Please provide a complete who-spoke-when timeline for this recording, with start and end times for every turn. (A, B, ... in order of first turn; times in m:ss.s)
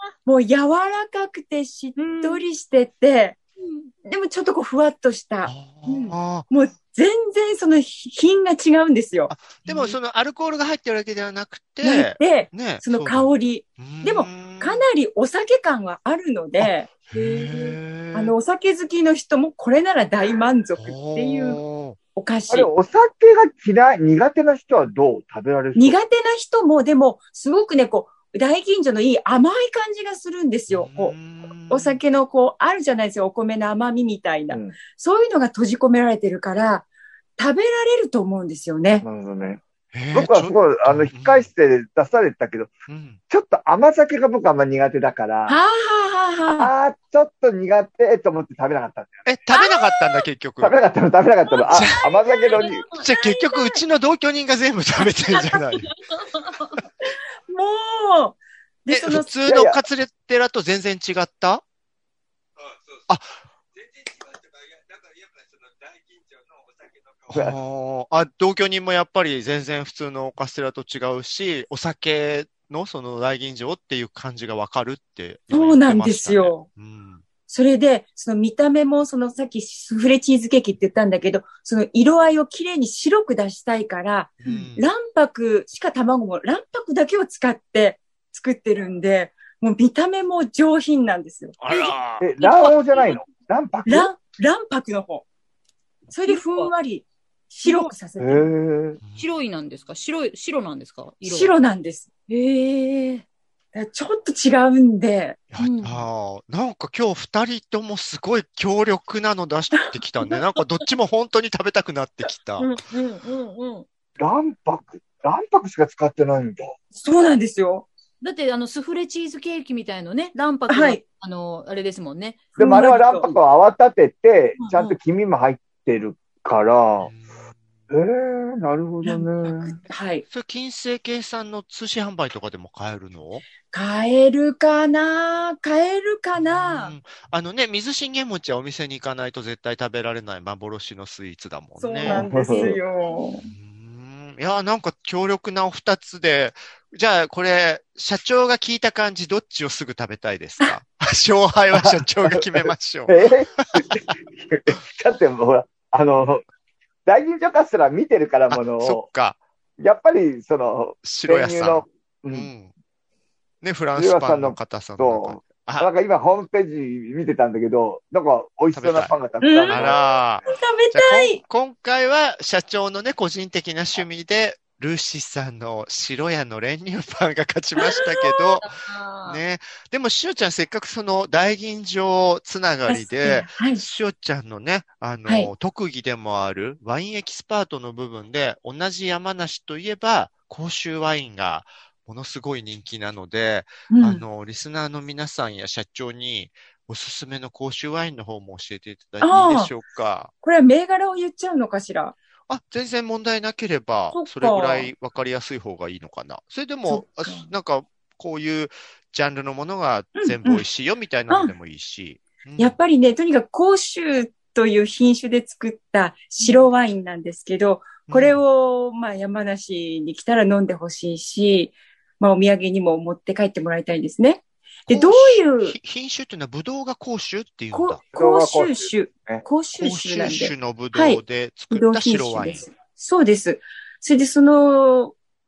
0:00.2-0:03.4 A
0:02.0-0:02.4 B
0:03.6-0:03.9 B
0:04.0-0:09.3 A
0:05.4-0:06.5 C
0:09.3-0:14.8 C
0:09.7-0:09.9 B
0:11.8-0:16.9 A
0:16.6-0:18.3 C
0:17.1-0:17.7 B
0:18.1-0:21.6 A
0:20.8-0:22.0 C
0:22.2-0:22.7 A
0:22.5-0:26.0 D
0:25.7-0:31.1 A
0:30.7-0:32.0 C
0:31.7-0:39.0 A
0:34.5-0:34.8 D
0:39.0-0:39.6 D
0:39.9-0:41.5 C
0:40.1-0:42.7 D
0:42.9-0:43.2 C
0:43.3-0:45.6 D
0:45.5-0:46.7 A
0:46.6-0:49.2 D
0:49.2-0:50.8 C
0:49.5-0:50.1 A
0:50.6-0:52.9 D
0:51.7-0:52.1 C
0:52.2-0:53.8 A
0:52.9-0:55.9 C
0:56.1-0:56.7 B
0:57.0-0:59.3 A
0:58.9-1:01.6 C
0:59.4-0:59.8 D
1:03.1-1:03.4 C
1:07.3-1:17.2 C
1:15.5-1:16.6 A
1:17.5-1:31.9 A
1:24.4-1:24.9 C
1:31.6-1:32.2 C
1:32.2-1:34.1 D
1:32.4-1:33.1 B
1:33.8-1:35.2 A
1:36.1-1:38.5 A
1:36.2-1:36.7 B
1:37.6-1:37.9 B
1:38.2-1:39.0 D
1:39.0-1:39.3 C
1:39.2-1:41.5 B
1:41.2-1:42.1 A
1:42.3-1:43.2 B
1:43.7-1:45.4 A
1:45.5-1:52.7 C
1:45.6-1:46.0 B
1:52.6-1:53.8 B
1:54.2-1:56.7 D
1:56.9-1:57.9 A
1:58.2-2:02.6 B
2:00.7-2:01.0 A
2:02.6-2:03.3 A
2:02.6-2:07.1 D
2:04.6-2:04.9 B
2:07.0-2:07.5 C
2:07.9-2:09.8 D
2:09.1-2:10.2 A
2:10.3-2:13.4 C
2:13.7-2:16.9 A
2:16.4-2:22.8 C
2:21.8-2:23.5 A
2:22.0-2:22.8 D
2:23.4-2:33.9 C
2:31.7-2:36.4 D
2:37.0-2:39.0 D
2:38.5-2:39.4 C
2:39.8-2:42.5 D
2:41.0-2:42.7 C
2:43.6-2:45.9 C
2:44.0-2:50.2 D
2:48.7-3:20.3 C
2:49.4-2:51.4 A
2:58.6-2:59.4 B
3:02.9-3:03.8 A
3:13.9-3:14.2 A
3:19.2-3:19.7 A
3:20.4-3:22.1 A
3:22.5-3:32.8 C
3:24.1-3:24.9 A
3:26.9-3:27.5 A
3:30.2-3:30.6 A
3:32.6-3:45.7 A
3:38.1-3:38.4 C
3:44.9-3:48.0 C
3:47.7-3:51.2 A
3:48.1-3:49.4 D
3:49.8-3:52.7 C
3:51.7-3:55.2 A